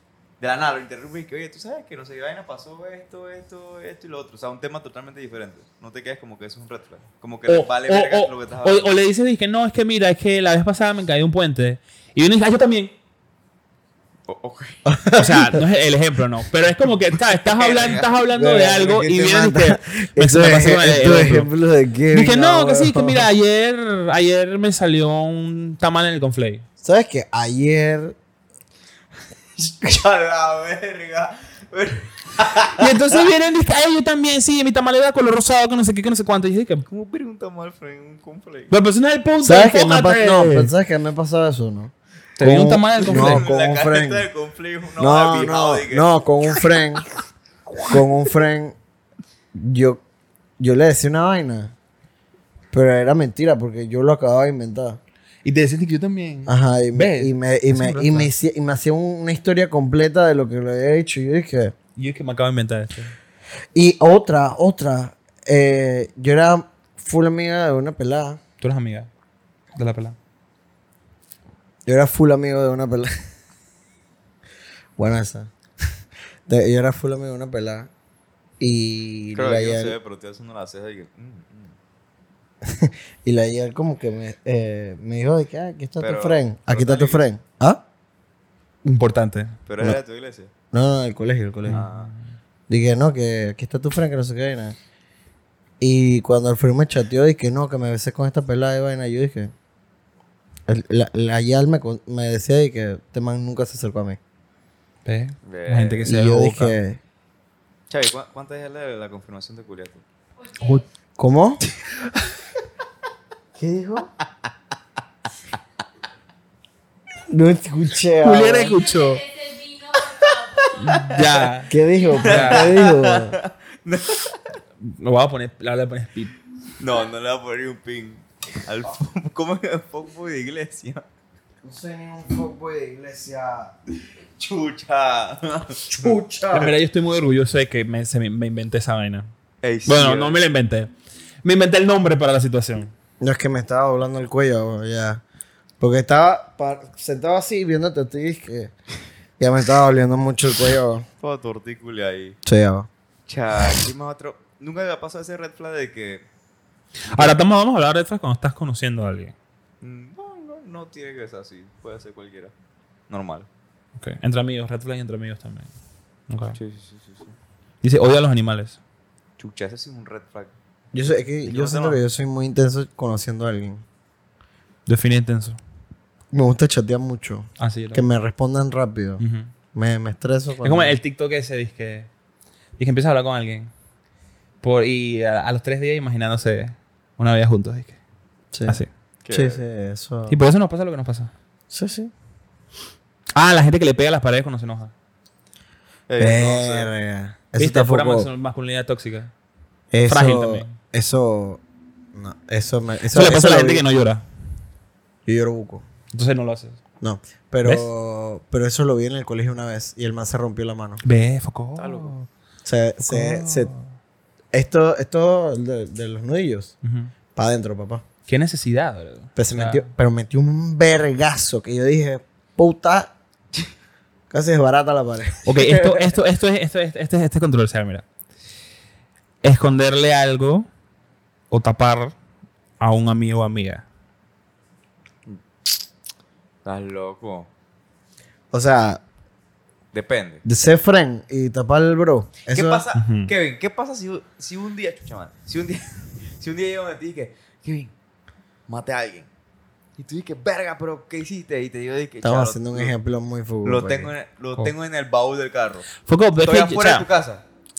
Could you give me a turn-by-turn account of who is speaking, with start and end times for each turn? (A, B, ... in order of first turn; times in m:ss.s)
0:00.4-0:08.9 A
0:07.5-0:12.9 B
0:14.3-0:14.9 A
0:14.8-0:15.6 C
0:15.1-0:21.5 B
0:17.5-0:18.2 A
0:18.4-0:23.2 C
0:22.1-0:26.6 B
0:26.8-0:28.2 C
0:29.6-0:33.2 A
0:32.8-0:36.8 B
0:36.9-0:38.7 A
0:38.7-0:40.7 B
0:39.4-0:44.3 C
0:42.4-0:43.5 B
0:43.0-0:46.1 A
0:45.0-0:47.0 C
0:47.8-0:48.8 C
0:49.5-0:50.0 C
0:50.6-0:51.7 C
0:52.7-0:55.0 C
0:55.4-0:58.3 B
0:56.4-1:01.7 C
1:02.0-1:03.1 B
1:03.7-1:08.4 C
1:08.6-1:09.1 B
1:09.8-1:10.2 B
1:11.8-1:13.1 C
1:15.0-1:15.5 C
1:16.5-1:17.9 C
1:18.6-1:20.0 C
1:19.3-1:21.7 A
1:22.6-1:27.8 C
1:26.0-1:27.2 A
1:28.8-1:29.5 B
1:29.7-1:30.5 A
1:30.7-1:31.8 C
1:31.6-1:32.3 B
1:31.7-1:32.1 A
1:32.7-1:34.8 C
1:35.8-1:39.5 C
1:40.7-1:44.2 C
1:45.0-1:46.8 B
1:45.4-1:46.0 A
1:46.0-1:47.0 C
1:47.9-1:50.0 A
1:50.4-1:50.8 D
1:51.2-1:51.6 C
1:53.6-1:54.1 C
1:57.3-1:58.7 C
1:58.2-1:59.2 B
1:58.5-2:01.2 D
2:00.8-2:02.6 B
2:00.9-2:01.3 A
2:01.7-2:03.4 C
2:02.0-2:02.2 D
2:02.2-2:04.6 A
2:04.8-2:06.3 B
2:06.8-2:11.0 A
2:11.6-2:13.7 C
2:14.4-2:16.7 A
2:15.9-2:16.7 C
2:16.5-2:19.3 B
2:19.6-2:20.4 A
2:19.8-2:20.9 B
2:21.4-2:22.9 B
2:23.2-2:25.2 C
2:25.8-2:28.7 C
2:29.4-2:31.1 C
2:31.2-2:32.4 A
2:32.4-2:32.9 C
2:33.3-2:36.2 A
2:37.1-2:39.3 B
2:39.8-2:42.5 A
2:43.1-2:43.5 A
2:44.0-2:45.7 B
2:46.3-2:46.6 B
2:46.5-2:47.4 A
2:47.8-2:48.8 B
2:49.4-2:50.5 A
2:50.9-2:53.8 C
2:51.4-2:52.0 A
2:54.8-2:55.6 B
2:56.3-2:59.2 C
2:57.6-2:58.1 B
2:59.2-2:59.5 B
2:59.7-3:01.0 C
3:00.6-3:02.1 B
3:02.8-3:03.7 B
3:04.6-3:08.0 B
3:08.5-3:10.4 C
3:09.2-3:09.6 A
3:10.3-3:11.3 B
3:11.7-3:12.1 C
3:13.3-3:14.9 B
3:16.1-3:16.9 A
3:16.2-3:18.3 C
3:17.6-3:19.3 B
3:19.9-3:21.6 C
3:20.0-3:20.8 B
3:22.1-3:23.8 C
3:23.1-3:24.2 B
3:25.2-3:25.8 C
3:26.1-3:26.8 B
3:27.0-3:31.0 C
3:27.6-3:27.9 B
3:31.0-3:32.3 B
3:31.8-3:32.1 A
3:32.6-3:33.7 C
3:33.0-3:33.8 B
3:34.5-3:36.7 C
3:36.8-3:37.1 B
3:37.3-3:38.0 C
3:38.3-3:39.9 B
3:39.4-3:43.1 C
3:44.3-3:46.1 C
3:45.4-3:48.0 B
3:49.4-3:50.7 B
3:51.5-3:52.1 B
3:52.8-3:53.8 B
3:56.6-3:57.5 A
3:58.5-3:59.0 C
3:59.9-4:00.4 A
4:00.4-4:02.8 C
4:02.5-4:07.9 A
4:02.9-4:03.3 B
4:08.7-4:09.3 A
4:10.0-4:12.9 A
4:12.2-4:14.1 C
4:13.6-4:15.9 A
4:16.0-4:17.1 B
4:16.4-4:17.4 A